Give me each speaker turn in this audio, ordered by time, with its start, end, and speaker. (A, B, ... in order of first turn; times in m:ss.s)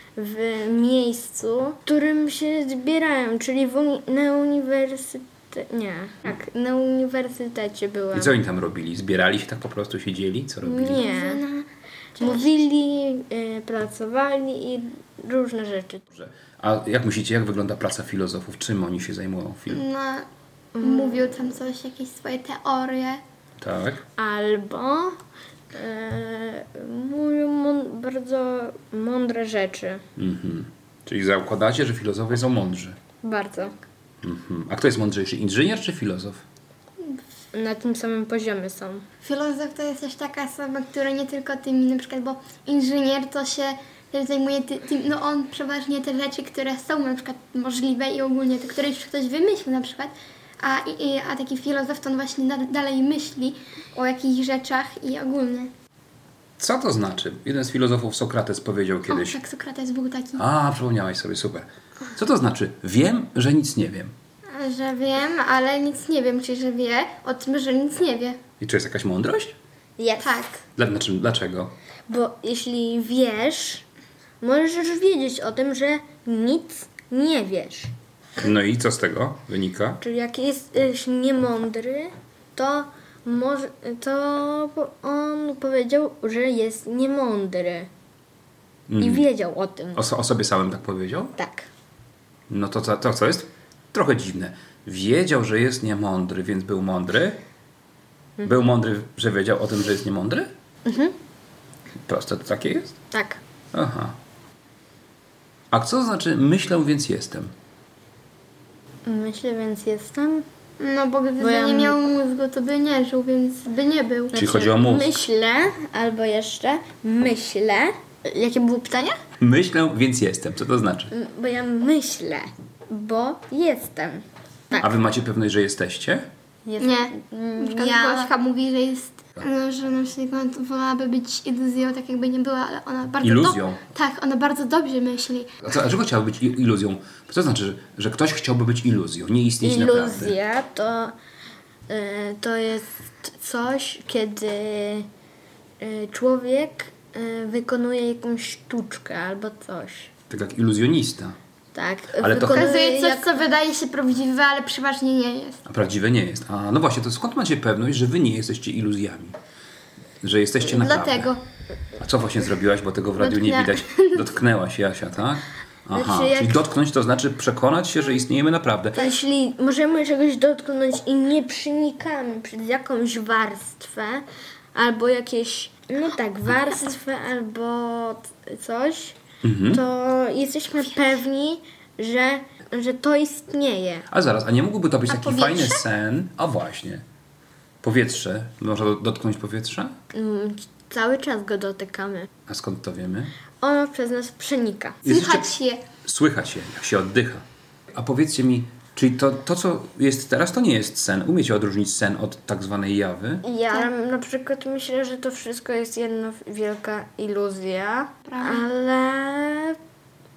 0:00.2-0:08.3 A
0:08.1-0:11.0 B
0:10.6-0:11.4 A
0:10.9-0:12.5 C
0:12.2-0:16.0 A
0:16.1-0:19.8 B
0:19.7-0:23.2 C
0:20.8-0:21.5 A
0:23.6-0:24.0 B
0:24.2-0:25.2 A
0:25.7-0:30.0 A
0:30.2-0:33.0 B
0:33.2-0:33.8 A
0:34.2-0:36.4 B
0:37.5-0:39.0 A
0:39.2-0:55.7 C
0:56.6-0:59.4 B
0:59.1-1:00.4 C
1:00.4-1:04.1 B
1:04.5-1:08.4 C
1:08.6-1:09.6 B
1:10.0-1:10.4 A
1:10.2-1:10.6 C
1:10.8-1:11.7 B
1:12.1-1:13.8 A
1:14.4-1:17.9 A
1:18.4-1:20.0 B
1:20.0-1:27.9 A
1:28.9-1:29.3 B
1:29.0-1:30.0 A
1:29.9-1:31.3 B
1:31.3-1:31.7 A
1:32.5-1:37.4 B
1:38.4-1:40.5 B
1:40.8-1:41.1 A
1:42.0-1:43.0 B
1:43.1-1:43.4 A
1:43.7-1:44.2 B
1:45.7-1:47.5 B
1:49.0-1:50.4 A
1:50.8-1:54.4 C
1:51.4-1:52.0 A
1:54.3-1:59.2 A
1:54.3-1:55.2 B
1:59.4-2:01.1 B
2:01.1-2:04.9 A
2:04.8-2:06.3 B
2:06.6-2:08.3 A
2:06.8-2:15.7 C
2:13.2-2:13.8 B
2:15.6-2:20.3 B
2:19.6-2:21.1 A
2:21.9-2:25.1 A
2:25.8-2:30.1 A
2:30.3-2:31.4 B
2:31.7-2:33.4 A
2:32.2-2:32.7 B
2:32.5-2:35.6 C
2:35.6-2:39.4 B
2:40.2-2:41.3 B
2:40.6-2:41.4 C
2:42.0-2:49.0 B
2:43.2-2:44.3 C
2:45.9-2:46.6 A
2:48.9-2:54.2 A
2:54.7-2:59.2 A
2:59.4-2:59.8 B
2:59.7-3:04.1 A
3:04.1-3:07.0 B
3:05.1-3:05.8 C
3:07.8-3:09.9 B
3:10.1-3:12.3 A
3:12.5-3:13.3 B
3:13.6-3:15.0 A
3:15.0-3:15.5 B
3:15.0-3:15.8 C
3:16.0-3:23.4 B
3:23.4-3:29.8 A
3:28.2-3:28.6 C